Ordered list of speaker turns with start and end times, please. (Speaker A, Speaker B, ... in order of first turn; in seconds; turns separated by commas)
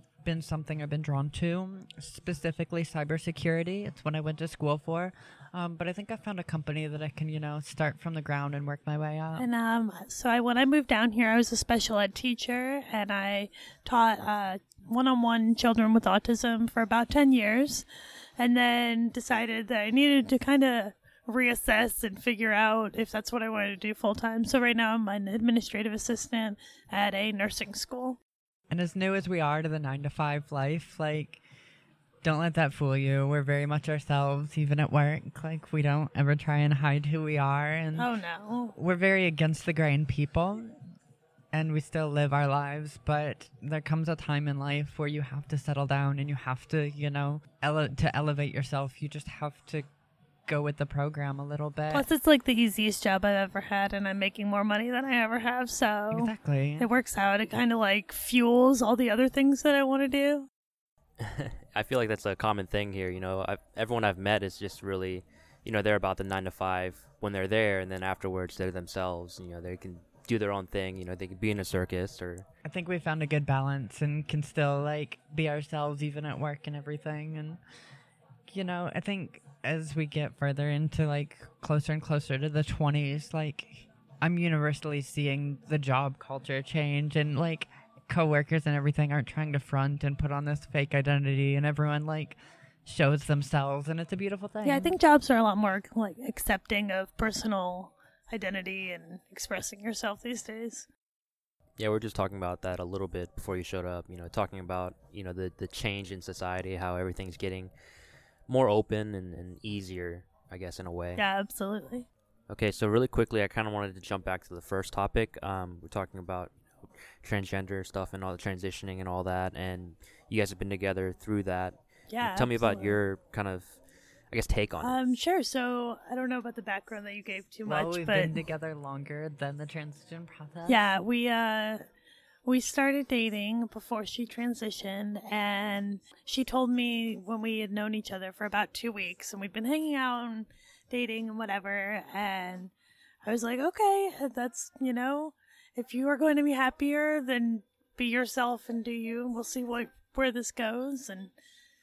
Speaker A: 0.2-9.4, Speaker B: 9.3-17.9, Speaker B: 18.4-28.2, Speaker A: 28.7-31.4, Speaker A: 32.2-38.1, Speaker B: 38.0-38.7, Speaker A: 38.7-40.8, Speaker A: 41.5-49.9, Speaker A: 50.5-52.1, Speaker B: 51.9-60.5, Speaker A: 56.1-56.9, Speaker C: 61.2-72.4, Speaker A: 72.6-77.6, Speaker A: 78.5-94.9, Speaker B: 94.6-100.9, Speaker C: 101.8-107.7, Speaker C: 108.5-111.2, Speaker B: 111.2-112.1, Speaker C: 112.5-116.5, Speaker C: 117.2-123.8, Speaker B: 122.1-123.0, Speaker C: 124.3-125.0, Speaker B: 124.8-128.3, Speaker A: 127.7-130.8, Speaker B: 130.7-131.8, Speaker B: 132.4-142.7, Speaker B: 143.2-151.3